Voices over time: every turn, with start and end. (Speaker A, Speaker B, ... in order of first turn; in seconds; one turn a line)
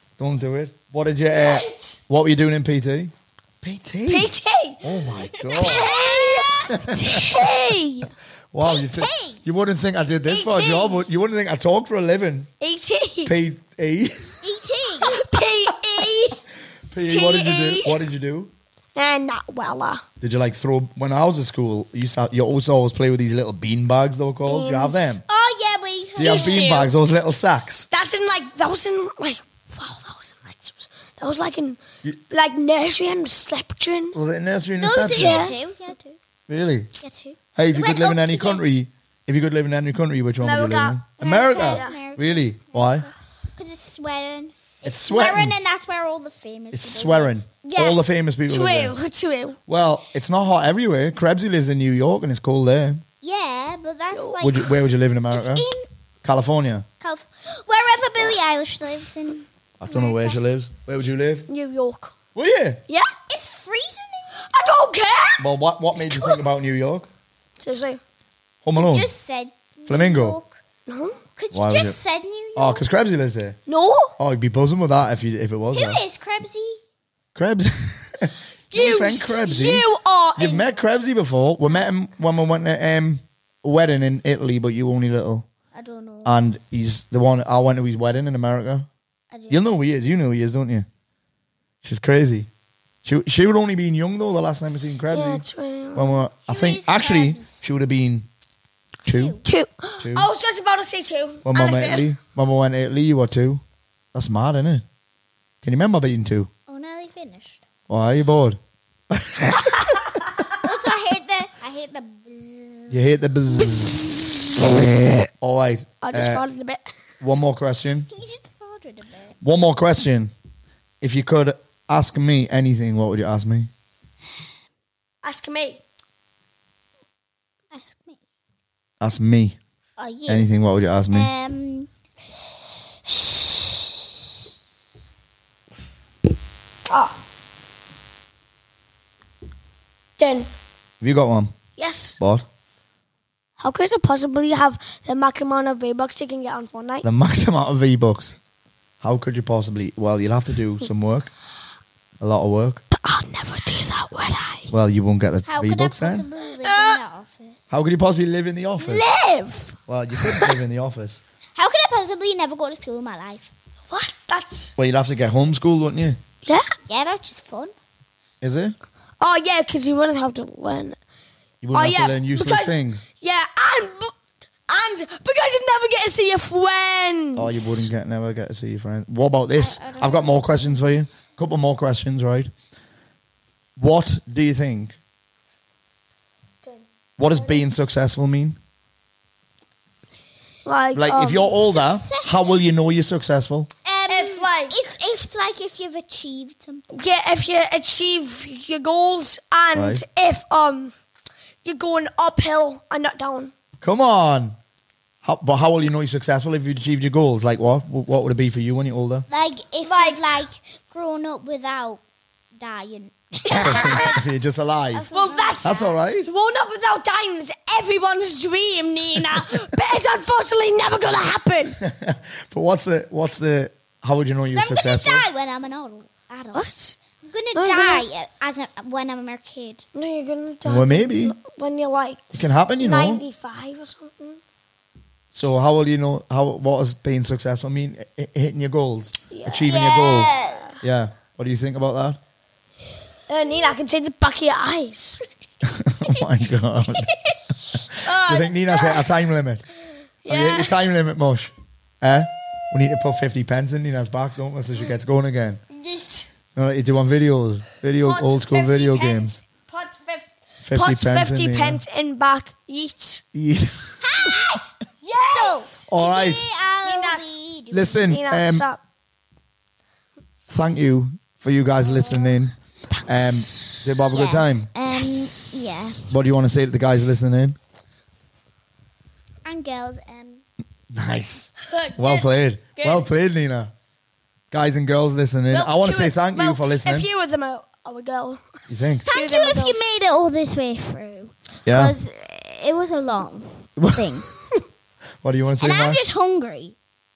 Speaker A: 0.2-5.9
Speaker B: 1.3-2.0
Speaker B: 4.1-4.8
Speaker C: 5.3-6.7
Speaker B: 5.5-8.1
Speaker A: 6.7-7.4
Speaker A: 8.5-12.5
Speaker C: 8.6-9.4
Speaker B: 10.2-11.0
Speaker B: 12.6-13.3
Speaker A: 13.2-14.4
Speaker C: 14.4-15.2
Speaker B: 15.0-16.4
Speaker A: 16.9-18.5
Speaker B: 17.1-18.0
Speaker B: 18.9-20.0
Speaker A: 20.2-25.2
Speaker B: 24.4-25.2
Speaker C: 25.3-26.8
Speaker A: 26.2-27.9
Speaker B: 26.2-26.9
Speaker B: 27.9-34.1
Speaker A: 34.1-35.5
Speaker C: 34.8-36.2
Speaker B: 35.1-35.5
Speaker A: 36.5-36.9
Speaker C: 37.0-38.7
Speaker A: 37.5-43.1
Speaker B: 40.4-41.0
Speaker C: 41.2-42.9
Speaker B: 41.5-42.0
Speaker C: 43.5-47.3
Speaker A: 44.8-45.6
Speaker A: 46.7-49.0
Speaker B: 47.6-49.6
Speaker A: 49.7-53.0
Speaker C: 53.2-54.7
Speaker B: 54.1-54.4
Speaker A: 54.4-55.7
Speaker C: 55.3-55.9
Speaker A: 56.2-56.9
Speaker C: 57.0-60.4
Speaker A: 59.8-61.5
Speaker B: 61.5-62.1
Speaker A: 62.3-62.8
Speaker C: 63.3-64.4
Speaker B: 64.5-66.4
Speaker A: 65.4-67.1
Speaker B: 67.6-68.0
Speaker A: 68.6-69.1
Speaker C: 68.7-70.6
Speaker A: 69.9-70.4
Speaker B: 70.9-71.2
Speaker C: 71.3-72.8
Speaker A: 71.5-72.0
Speaker A: 72.5-73.6
Speaker B: 73.7-74.1
Speaker A: 74.2-76.0
Speaker C: 75.7-76.8
Speaker A: 77.3-79.8
Speaker B: 78.7-80.7
Speaker A: 80.3-85.5
Speaker C: 85.7-86.4
Speaker A: 86.2-88.9
Speaker C: 89.3-89.7
Speaker A: 89.5-90.9
Speaker A: 91.8-92.5
Speaker A: 93.0-95.4
Speaker B: 95.1-96.2
Speaker A: 95.9-98.3
Speaker C: 96.5-97.7
Speaker A: 99.0-99.4
Speaker C: 99.1-99.4
Speaker B: 99.4-102.1
Speaker A: 100.0-100.3
Speaker A: 101.4-103.6
Speaker A: 104.1-104.8
Speaker A: 105.6-106.5
Speaker C: 106.7-107.6
Speaker A: 107.9-108.6
Speaker A: 109.1-110.0
Speaker C: 110.6-113.0
Speaker A: 112.9-114.2
Speaker B: 113.7-114.3
Speaker A: 115.4-116.4
Speaker B: 116.0-116.8
Speaker A: 117.2-118.1
Speaker C: 118.1-119.3
Speaker A: 119.4-120.3
Speaker A: 121.0-123.7
Speaker B: 125.2-125.8
Speaker C: 127.7-128.2
Speaker A: 129.0-129.6
Speaker C: 130.0-130.5
Speaker A: 130.3-131.3
Speaker C: 131.1-131.9
Speaker B: 140.2-140.5
Speaker A: 141.0-141.6
Speaker B: 141.8-142.2
Speaker A: 142.2-142.4
Speaker B: 143.6-147.1
Speaker A: 147.0-148.4
Speaker A: 149.0-151.3
Speaker A: 152.2-152.8
Speaker B: 152.9-154.7
Speaker A: 154.7-156.2
Speaker C: 155.4-157.6
Speaker B: 156.6-157.0
Speaker A: 157.7-159.0
Speaker B: 158.8-160.6
Speaker A: 159.9-161.2
Speaker C: 161.6-163.5
Speaker B: 163.9-164.7
Speaker A: 164.8-166.2
Speaker B: 166.4-166.7
Speaker C: 166.9-167.7
Speaker A: 168.4-168.8
Speaker B: 169.2-171.0
Speaker A: 171.6-173.0
Speaker B: 171.7-174.1
Speaker B: 174.7-177.9
Speaker A: 177.3-182.5
Speaker C: 179.5-180.7
Speaker A: 183.8-185.0
Speaker B: 186.6-187.6
Speaker A: 187.2-188.6
Speaker B: 190.6-191.5
Speaker A: 190.9-193.7
Speaker C: 191.6-192.5
Speaker C: 193.8-196.9
Speaker B: 194.1-194.9
Speaker B: 196.9-200.9
Speaker A: 199.7-200.0
Speaker B: 201.6-203.5
Speaker A: 203.8-204.6
Speaker A: 205.2-209.2
Speaker C: 209.3-212.0
Speaker B: 209.8-210.2
Speaker C: 212.6-214.1
Speaker B: 213.4-214.2
Speaker A: 213.6-215.1
Speaker B: 215.0-221.8
Speaker C: 215.1-215.9
Speaker A: 215.6-216.3
Speaker A: 221.8-225.2
Speaker C: 224.5-226.6
Speaker B: 226.5-226.9
Speaker C: 227.2-229.8
Speaker B: 227.5-228.0
Speaker B: 229.9-234.4
Speaker A: 230.6-231.3
Speaker A: 232.3-233.2
Speaker A: 235.3-242.2
Speaker B: 239.3-240.7
Speaker C: 239.7-240.7
Speaker B: 243.3-245.2
Speaker A: 245.6-247.1
Speaker B: 247.9-249.1
Speaker A: 248.1-249.7
Speaker B: 250.2-250.8
Speaker A: 250.3-255.6
Speaker B: 255.7-256.3
Speaker A: 256.5-259.4
Speaker B: 258.0-263.2
Speaker A: 260.6-261.8
Speaker A: 263.3-264.4
Speaker C: 264.0-264.6
Speaker B: 265.0-265.9
Speaker C: 265.2-268.2
Speaker A: 265.9-266.5
Speaker B: 266.8-267.3
Speaker A: 267.7-268.7
Speaker B: 268.1-268.8
Speaker A: 270.5-274.7
Speaker B: 271.9-272.4
Speaker B: 272.9-274.1
Speaker C: 274.1-276.1
Speaker B: 274.9-275.9
Speaker A: 276.1-277.6
Speaker C: 279.4-280.4
Speaker A: 280.9-283.7
Speaker B: 281.6-283.0
Speaker A: 284.5-287.1
Speaker B: 285.5-288.4
Speaker A: 288.7-289.1
Speaker B: 289.0-289.9
Speaker C: 289.1-294.2
Speaker A: 291.6-291.9
Speaker A: 293.8-294.2
Speaker A: 295.2-296.0
Speaker C: 295.6-296.7